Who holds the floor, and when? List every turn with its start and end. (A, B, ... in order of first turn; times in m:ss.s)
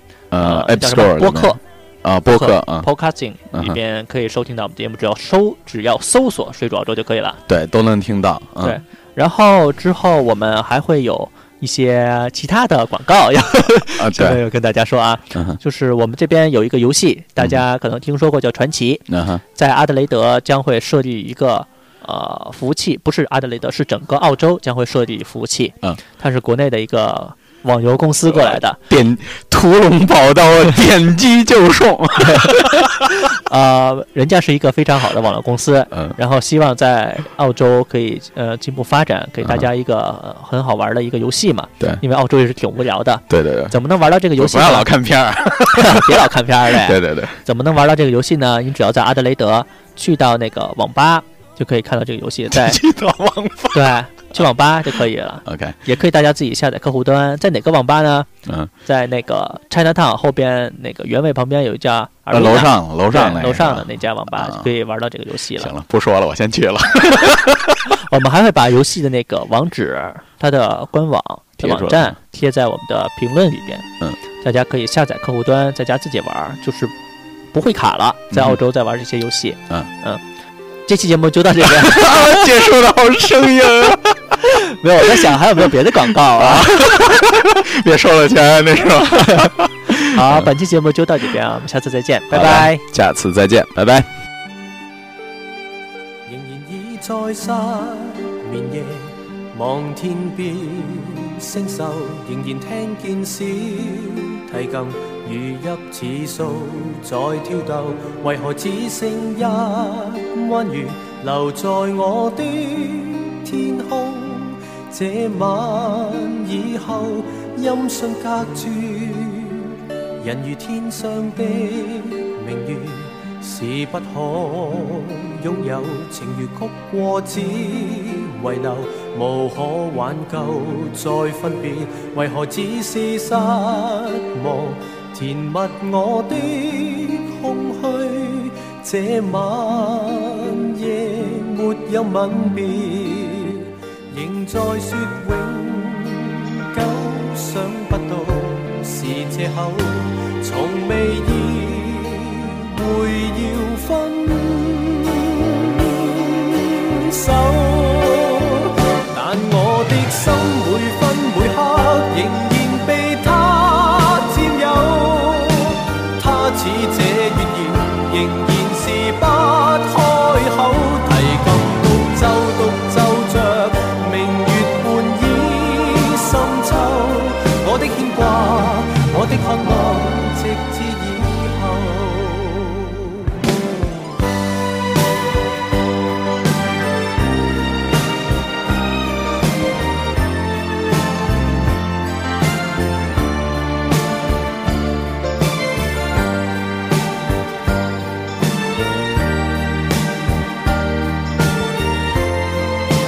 0:00.3-0:02.9 A
0:00.4-0:01.6 B
0:02.3-0:07.4 B
0:03.5-0:03.8 A
0:07.5-0:08.8 A
0:08.6-0:28.8 B
0:14.0-0:14.4 A
0:15.3-0:15.6 A
0:19.1-0:19.4 A
0:28.3-0:33.1 A
0:32.2-0:44.9 B
0:43.3-0:43.8 A
0:44.4-0:47.4 A
0:45.7-0:52.8 B
0:52.5-0:54.4 A
0:53.7-0:58.3 B
0:55.5-0:55.8 A
0:58.5-0:58.7 A
0:58.8-1:05.7 B
1:02.3-1:04.7 A
1:05.6-1:07.9 A
1:07.9-1:13.9 B
1:11.6-1:12.2 A
1:14.4-1:16.9 B
1:17.5-1:20.2 B
1:18.3-1:18.6 A
1:20.9-1:22.4 B
1:21.7-1:24.5 A
1:24.4-1:27.2 B
1:25.2-1:25.7 A
1:26.3-1:30.5 A
1:29.1-1:32.8 B
1:32.3-1:34.1 A
1:36.3-3:03.4 C